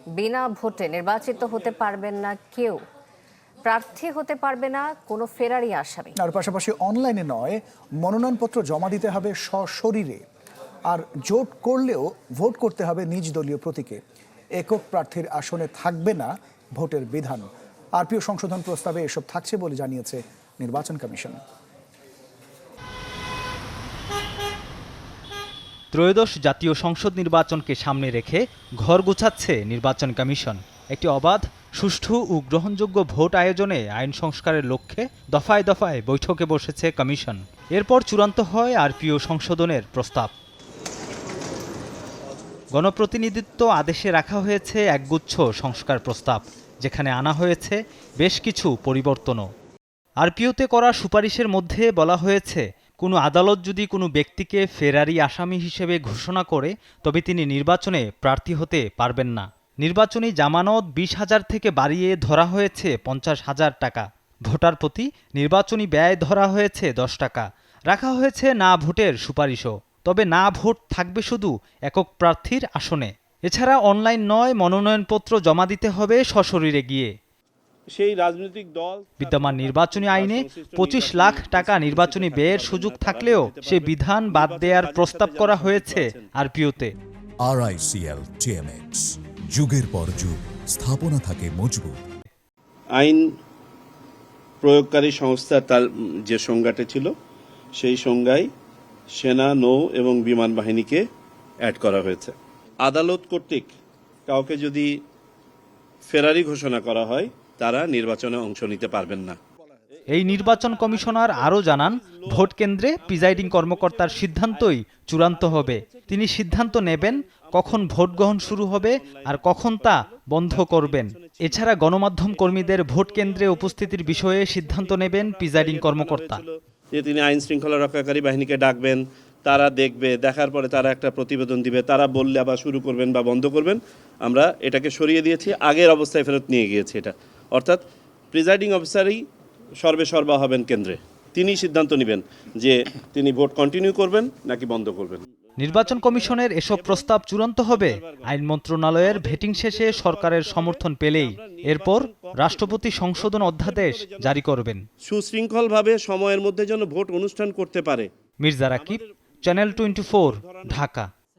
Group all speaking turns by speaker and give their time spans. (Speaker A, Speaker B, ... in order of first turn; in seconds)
Speaker A: 0.2-2.8, 3.6-6.1
Speaker B: 6.2-10.2, 10.9-14.0, 14.6-21.4
Speaker C: 25.9-40.3, 42.8-49.5, 50.2-77.1, 79.2-86.9, 110.1-126.4, 145.6-154.8, 158.4-161.1
Speaker D: 77.9-86.3, 93.0-93.2, 94.6-97.1, 97.8-98.5, 99.1-101.1, 101.6-103.7, 104.3-105.0, 106.0-109.4, 110.1-139.2, 139.8-147.1, 147.7-148.3, 149.0-154.4, 155.0-158.1, 158.8-160.8
Speaker E: 87.4-92.0